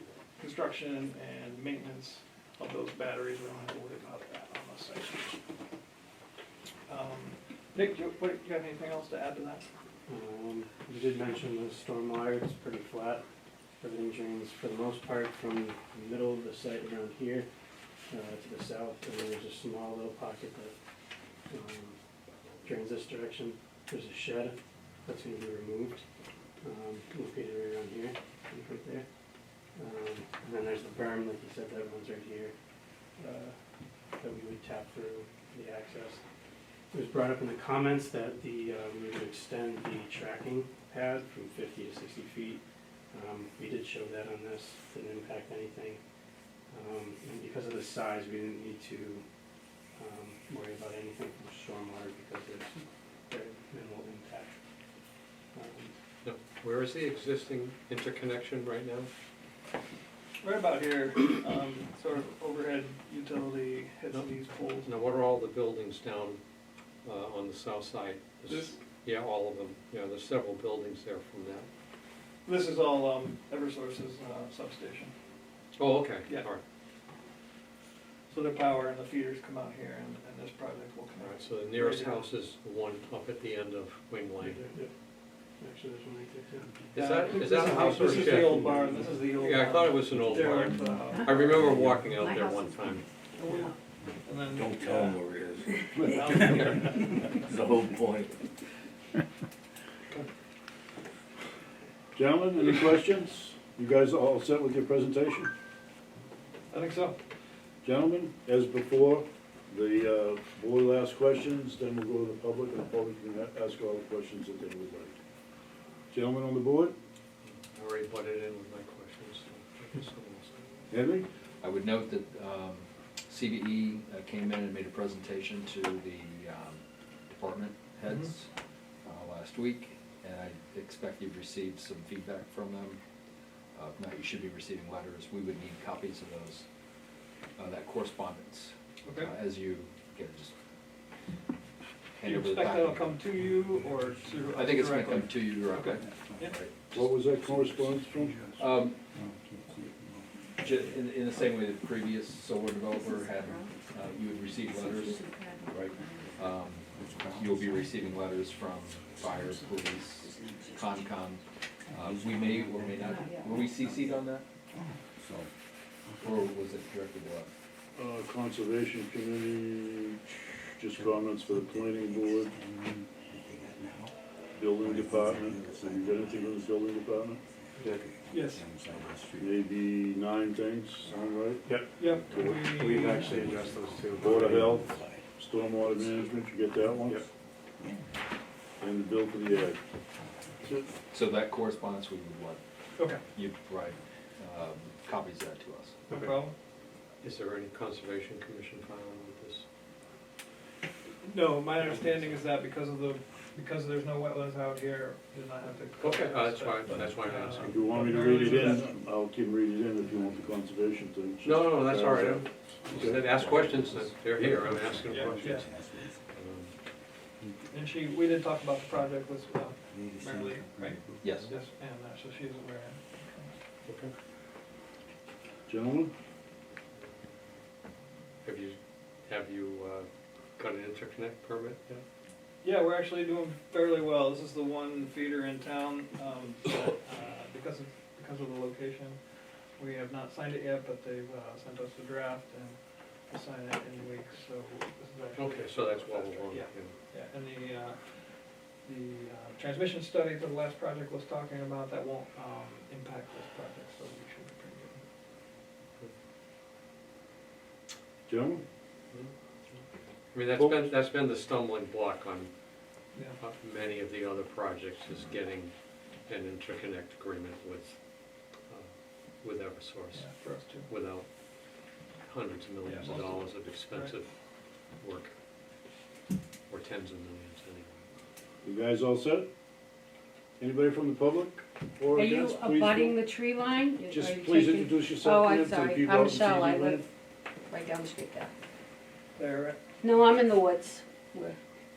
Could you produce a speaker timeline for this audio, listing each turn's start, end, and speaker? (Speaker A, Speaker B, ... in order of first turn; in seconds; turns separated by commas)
Speaker A: 0.3-5.4, Speaker A: 6.9-9.7, Speaker B: 10.1-13.2, Speaker B: 13.8-17.5, Speaker B: 18.1-20.7, Speaker B: 21.5-22.0, Speaker B: 22.6-26.0, Speaker B: 26.6-29.0, Speaker B: 29.7-32.5, Speaker B: 33.2-33.5, Speaker B: 34.1-36.2, Speaker B: 36.9-46.0, Speaker B: 46.7-49.2, Speaker B: 49.9-54.5, Speaker B: 55.5-55.9, Speaker C: 56.2-59.1, Speaker A: 60.4-64.9, Speaker C: 64.8-66.4, Speaker C: 67.0-71.7, Speaker A: 68.5-68.8, Speaker A: 72.4-75.1, Speaker C: 75.8-76.6, Speaker A: 78.3-82.3, Speaker C: 81.2-84.6, Speaker B: 84.4-84.9, Speaker B: 85.6-86.7, Speaker C: 86.9-93.1, Speaker A: 86.9-91.9, Speaker B: 87.6-89.0, Speaker D: 92.0-93.8, Speaker A: 93.4-97.4, Speaker E: 94.0-95.3, Speaker F: 95.9-96.8, Speaker E: 97.5-98.3, Speaker F: 102.1-105.5, Speaker A: 106.7-107.2, Speaker F: 107.8-115.2, Speaker F: 116.1-117.0, Speaker C: 117.4-120.6, Speaker F: 120.9-121.2, Speaker G: 121.6-128.5, Speaker G: 129.0-133.0, Speaker G: 133.7-136.7, Speaker G: 137.6-140.5, Speaker A: 139.0-139.3, Speaker G: 142.1-143.1, Speaker A: 142.2-146.6, Speaker E: 143.8-144.4, Speaker G: 144.5-147.1, Speaker E: 146.0-146.5, Speaker F: 146.9-148.4, Speaker E: 147.3-151.1, Speaker G: 148.6-149.0, Speaker G: 150.6-164.5, Speaker D: 152.9-153.7, Speaker D: 154.6-156.6, Speaker E: 156.2-160.7, Speaker D: 160.2-161.1, Speaker E: 161.9-165.5, Speaker D: 163.0-163.7, Speaker E: 166.0-166.6, Speaker G: 166.2-167.5, Speaker F: 167.9-172.5, Speaker E: 170.9-174.1, Speaker F: 174.5-177.4, Speaker E: 174.7-179.6, Speaker A: 178.3-178.7, Speaker F: 179.4-182.9, Speaker B: 181.6-181.9, Speaker A: 182.0-183.4, Speaker B: 182.8-184.7, Speaker E: 183.0-188.3, Speaker F: 184.2-187.2, Speaker F: 188.8-189.8, Speaker F: 190.6-190.9, Speaker G: 191.1-192.6, Speaker A: 193.0-193.2, Speaker G: 193.3-196.0, Speaker A: 196.1-196.5, Speaker C: 197.2-199.6, Speaker A: 201.2-208.8, Speaker C: 201.9-202.4, Speaker C: 206.0-207.8, Speaker F: 207.7-213.3, Speaker E: 208.1-209.0, Speaker E: 210.0-210.6, Speaker C: 211.4-216.8, Speaker E: 212.8-216.3, Speaker G: 213.1-214.0, Speaker A: 215.1-215.7, Speaker A: 217.7-223.6, Speaker E: 219.9-221.5, Speaker G: 221.2-221.5, Speaker C: 223.8-224.1, Speaker F: 225.7-226.1, Speaker C: 228.4-231.8, Speaker A: 232.6-255.0, Speaker C: 245.3-246.9, Speaker F: 258.3-258.6, Speaker C: 259.1-262.5, Speaker F: 260.5-260.9, Speaker C: 263.4-265.7, Speaker C: 266.2-268.0, Speaker C: 269.4-271.3, Speaker A: 270.1-270.9, Speaker C: 272.2-274.3, Speaker A: 272.8-274.1, Speaker C: 275.0-275.3, Speaker C: 276.7-278.0, Speaker F: 278.6-279.5, Speaker F: 280.6-283.2, Speaker D: 282.1-287.1, Speaker F: 284.1-287.1, Speaker D: 287.7-288.5, Speaker A: 289.4-289.8, Speaker D: 290.0-291.6